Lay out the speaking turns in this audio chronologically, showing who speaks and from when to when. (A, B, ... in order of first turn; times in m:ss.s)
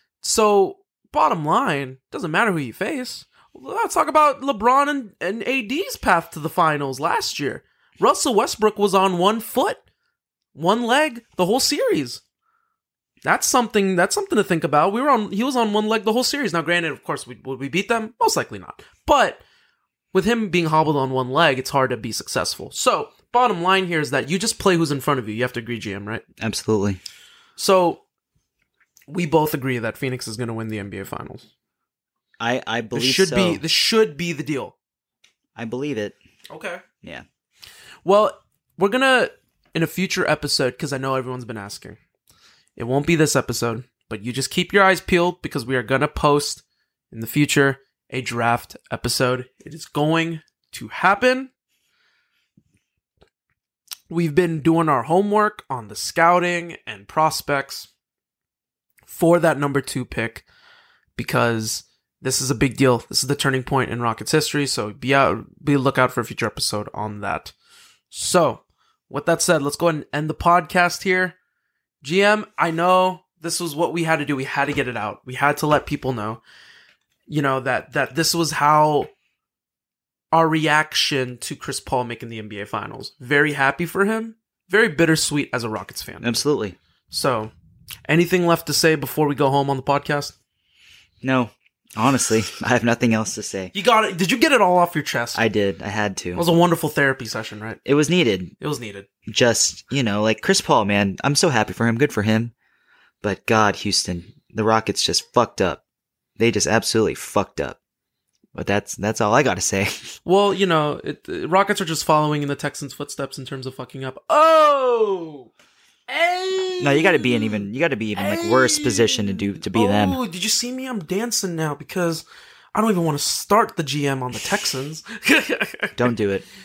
0:00.2-0:09.8 A
0:10.5-0:12.2 A
0:13.2-0:19.4 A
0:20.1-0:26.2 A
0:26.4-0:27.0 B
0:27.6-0:28.0 A
0:29.1-0:31.5 A
0:32.4-0:33.6 B
0:32.9-0:34.7 A
0:35.6-0:36.1 B
0:36.5-0:36.8 A
0:38.0-0:42.0 A
0:42.8-0:51.5 A
0:54.1-0:57.9 A
0:59.1-1:00.4 A
1:01.2-1:07.5 A
1:08.1-1:11.3 A
1:12.0-1:16.4 A
1:17.3-1:19.1 A
1:20.3-1:26.4 A
1:26.2-1:26.8 B
1:27.1-1:27.5 A
1:28.1-1:30.3 A
1:31.2-1:33.7 B
1:33.7-1:35.4 A
1:35.3-1:36.4 B
1:36.3-1:37.8 A
1:37.8-1:38.5 B
1:38.6-1:39.1 A
1:39.3-1:42.5 B
1:43.2-1:45.8 B
1:46.4-1:47.8 B
1:48.5-1:50.1 B
1:50.2-1:55.5 A
1:56.1-1:57.6 A
1:56.8-2:00.2 B
1:58.1-2:06.0 A
2:06.0-2:06.4 B